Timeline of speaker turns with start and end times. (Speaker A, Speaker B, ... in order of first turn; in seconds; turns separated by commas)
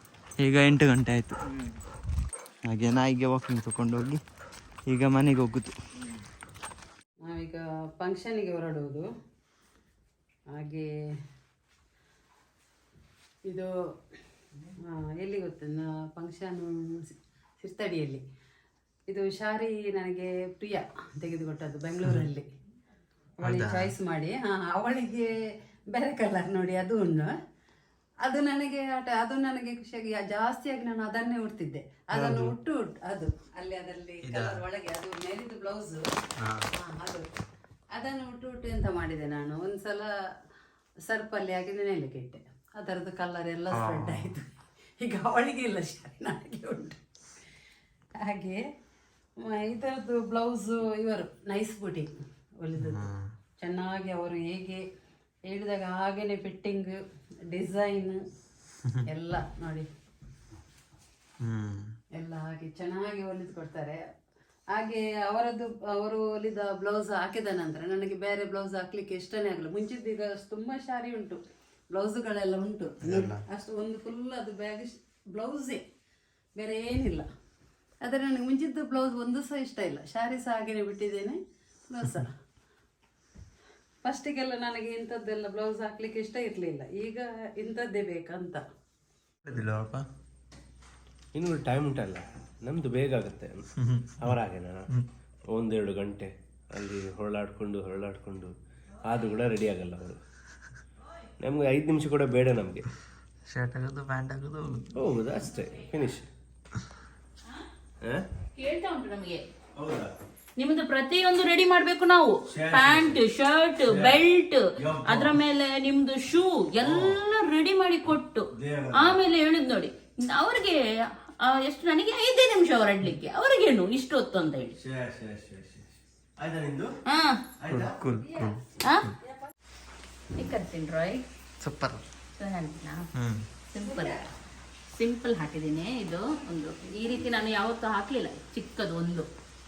Speaker A: 0.4-1.4, Speaker A: 2.7-4.2, Speaker A: 4.9-5.7, Speaker B: 7.2-9.1, Speaker B: 10.5-10.9, Speaker B: 13.4-13.7, Speaker B: 14.8-18.2, Speaker B: 19.1-22.5, Speaker B: 23.4-25.3, Speaker A: 23.4-23.9, Speaker B: 25.9-27.3, Speaker B: 28.2-36.0, Speaker A: 32.1-32.5, Speaker A: 34.2-34.6, Speaker B: 36.7-37.3, Speaker B: 37.9-40.1, Speaker B: 41.0-44.5, Speaker A: 43.7-44.3, Speaker B: 45.0-47.0, Speaker B: 48.2-48.6, Speaker B: 49.4-52.1, Speaker B: 52.6-53.1, Speaker A: 52.8-53.1, Speaker B: 53.6-54.8, Speaker B: 55.4-57.0, Speaker B: 57.5-58.2, Speaker B: 59.1-59.9, Speaker A: 61.4-61.9, Speaker B: 62.1-64.0, Speaker B: 64.7-75.8, Speaker A: 73.0-73.4, Speaker B: 76.5-77.2, Speaker B: 78.0-82.3, Speaker B: 84.0-88.6, Speaker A: 89.5-90.0, Speaker C: 91.3-93.6, Speaker A: 93.8-94.3, Speaker C: 94.2-94.9, Speaker C: 95.5-98.5, Speaker C: 99.0-100.2, Speaker C: 101.4-102.8, Speaker A: 103.5-104.9, Speaker C: 104.9-106.3, Speaker D: 108.5-109.4, Speaker C: 109.8-110.1, Speaker D: 110.6-124.8, Speaker C: 112.5-113.2, Speaker C: 113.9-114.2, Speaker C: 114.8-115.3, Speaker C: 116.8-117.1, Speaker C: 118.5-119.2, Speaker C: 124.8-126.9, Speaker D: 127.1-127.4, Speaker C: 127.6-128.0, Speaker A: 127.7-128.6, Speaker D: 128.8-129.1, Speaker D: 130.3-131.2, Speaker A: 131.6-132.0, Speaker D: 132.4-133.1, Speaker A: 133.2-133.4, Speaker D: 133.7-134.2, Speaker D: 134.9-139.3